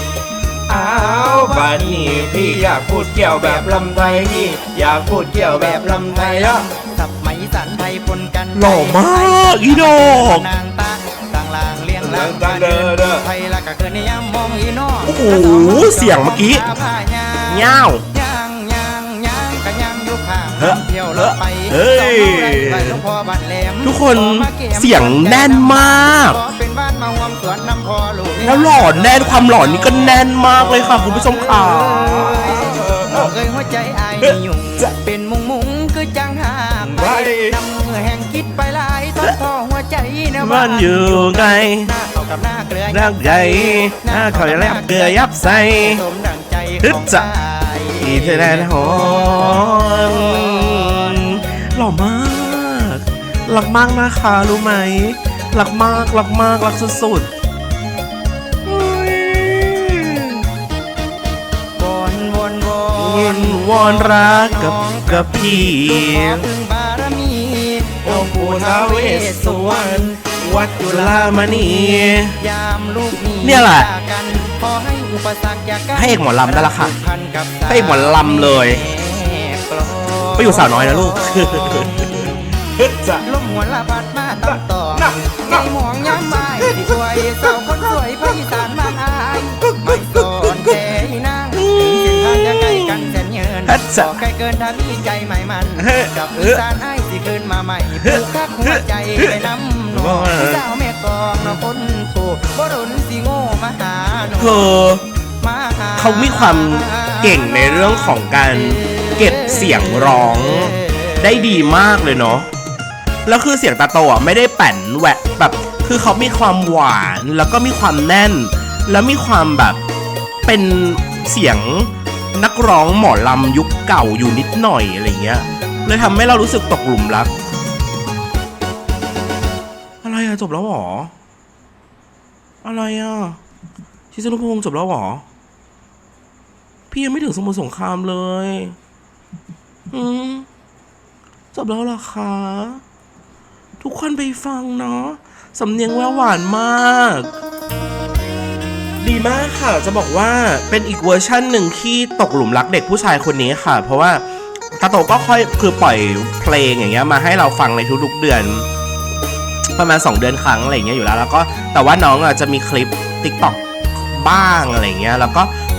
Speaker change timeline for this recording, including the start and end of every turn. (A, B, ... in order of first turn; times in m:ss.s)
0:00.7-0:04.4 A
0:00.7-0:06.7 B
0:05.1-0:51.4 A
0:08.6-0:10.5 B
0:12.0-0:13.3 B
0:15.0-0:16.7 B
0:17.5-0:18.0 B
0:20.6-0:23.0 B
0:23.8-0:26.4 B
0:28.4-0:33.3 B
0:34.2-0:34.9 B
0:36.8-0:37.6 B
0:40.4-0:41.9 B
0:42.9-0:46.0 B
0:46.8-0:47.3 B
0:48.0-0:57.3 B
0:58.6-1:00.5 B
1:01.8-1:22.5 A
1:03.0-1:06.4 B
1:08.0-1:12.4 B
1:13.4-1:13.9 B
1:15.9-1:17.0 B
1:17.7-1:18.8 B
1:20.4-1:23.3 B
1:23.2-1:44.7 A
1:24.4-1:28.9 B
1:29.6-1:30.8 B
1:31.5-1:34.1 B
1:35.8-1:36.6 B
1:38.0-1:40.6 B
1:44.4-1:45.0 B
1:45.4-1:51.6 A
1:46.0-1:52.5 B
1:53.3-1:59.8 B
2:00.4-2:07.3 B
2:10.0-2:11.1 B
2:12.6-2:13.4 B
2:14.1-2:15.2 B
2:16.9-2:18.8 B
2:19.9-2:20.5 B
2:21.5-2:22.8 B
2:23.8-2:27.3 B
2:29.0-2:34.2 B
2:34.8-2:38.7 B
2:39.8-2:45.5 B